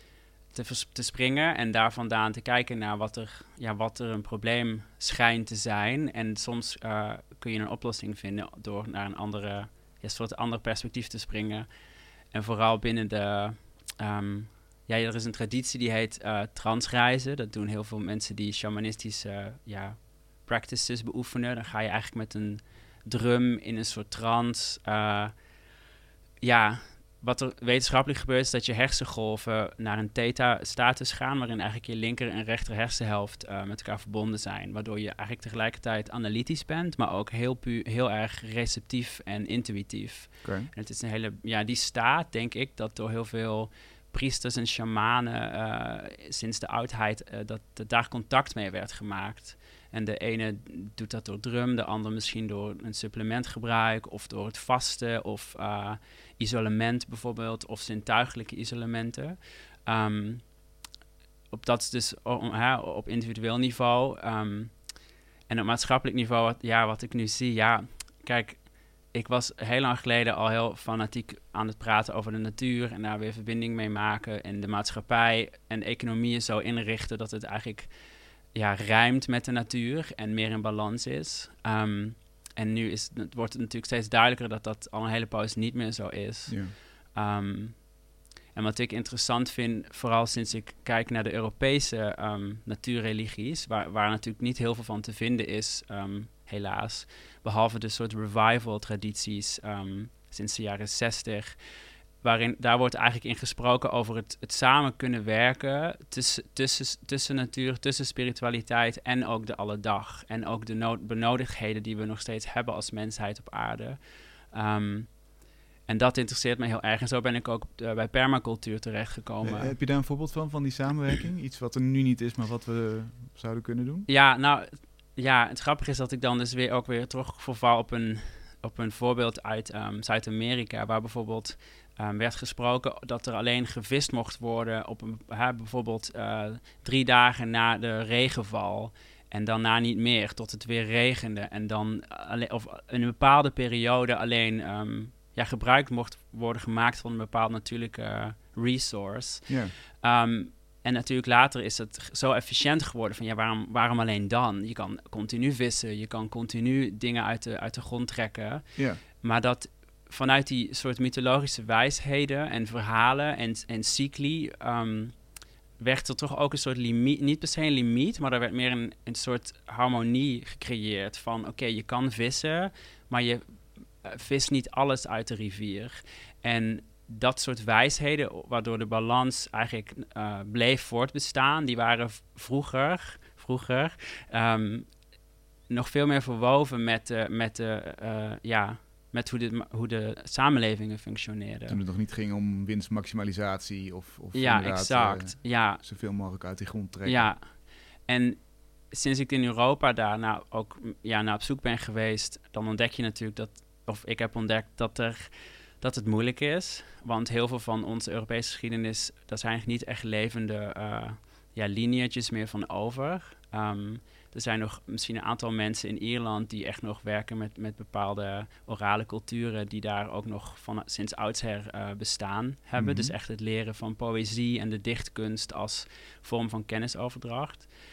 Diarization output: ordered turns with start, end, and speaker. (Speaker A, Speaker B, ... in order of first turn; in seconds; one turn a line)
Speaker A: 0.5-11.7
Speaker A: 12.3-25.3
Speaker A: 26.4-60.5
Speaker B: 40.4-40.7
Speaker A: 61.5-64.8
Speaker A: 65.5-77.9
Speaker A: 78.5-87.9
Speaker B: 86.5-86.7
Speaker A: 88.5-101.6
Speaker A: 102.2-114.0
Speaker A: 114.5-115.2
Speaker A: 115.9-119.8
Speaker B: 119.4-124.1
Speaker A: 124.1-165.2
Speaker B: 149.5-149.7
Speaker B: 158.8-159.0
Speaker A: 165.8-184.9
Speaker A: 185.7-191.8
Speaker B: 191.7-197.3
Speaker A: 194.3-195.8
Speaker A: 197.0-197.4
Speaker A: 198.1-227.7
Speaker B: 222.8-223.1